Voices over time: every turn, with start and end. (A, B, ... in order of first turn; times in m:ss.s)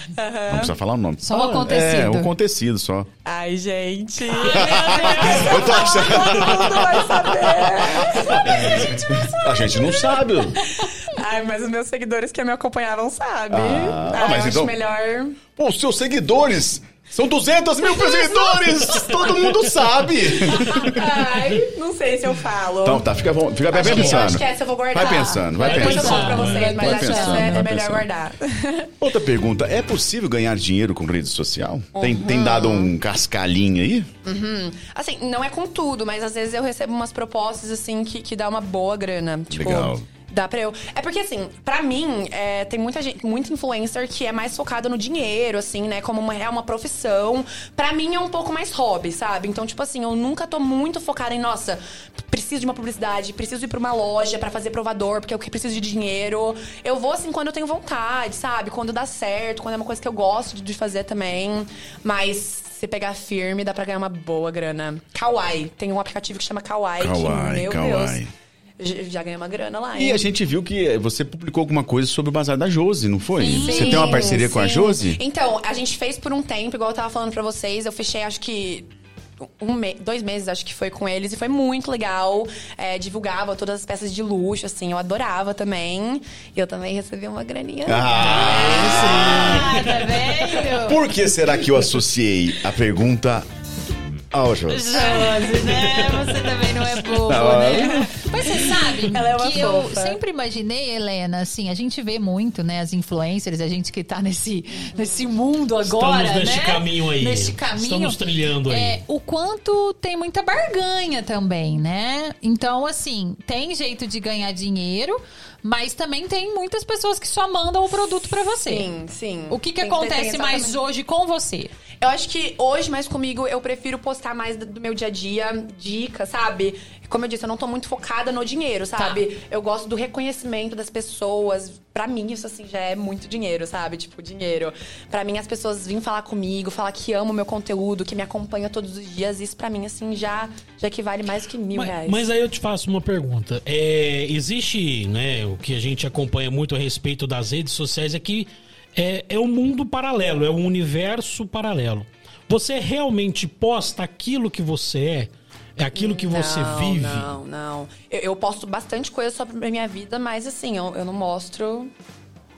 0:00.1-0:00.8 A
0:00.5-0:03.1 B
0:01.2-0:02.3 C
0:01.3-0:01.6 D
0:03.2-0:15.4 A
0:04.3-0:06.1 C
0:04.4-0:10.6 B
0:13.5-0:14.7 B
0:15.6-0:21.1 B
0:17.9-0:19.1 A
0:20.4-0:23.1 A
0:22.8-0:28.1 B
0:23.7-0:28.9 A
0:23.8-0:24.4 D
0:25.0-0:27.6 C
0:25.6-0:26.8 D
0:29.0-0:34.1 B
0:32.0-0:32.9 A
0:34.2-1:08.2 A
0:39.5-0:40.0 B
1:07.0-1:08.3 B
1:08.8-1:10.2 A
1:10.0-1:15.2 B
1:13.4-1:14.3 C
1:13.5-1:29.6 A
1:27.9-1:29.9 B
1:28.2-1:30.0 D
1:28.3-1:31.0 C
1:30.6-1:33.5 B
1:34.3-1:35.1 B
1:34.7-1:58.9 C
1:35.0-1:35.4 A
1:35.6-1:36.4 D
1:37.2-1:38.1 B
1:38.0-1:40.2 A
1:45.8-1:49.0 D
1:58.6-2:00.8 A
1:59.5-2:01.7 C
2:02.0-2:22.3 A
2:09.0-2:09.2 C
2:21.7-2:37.4 D
2:36.0-2:41.9 A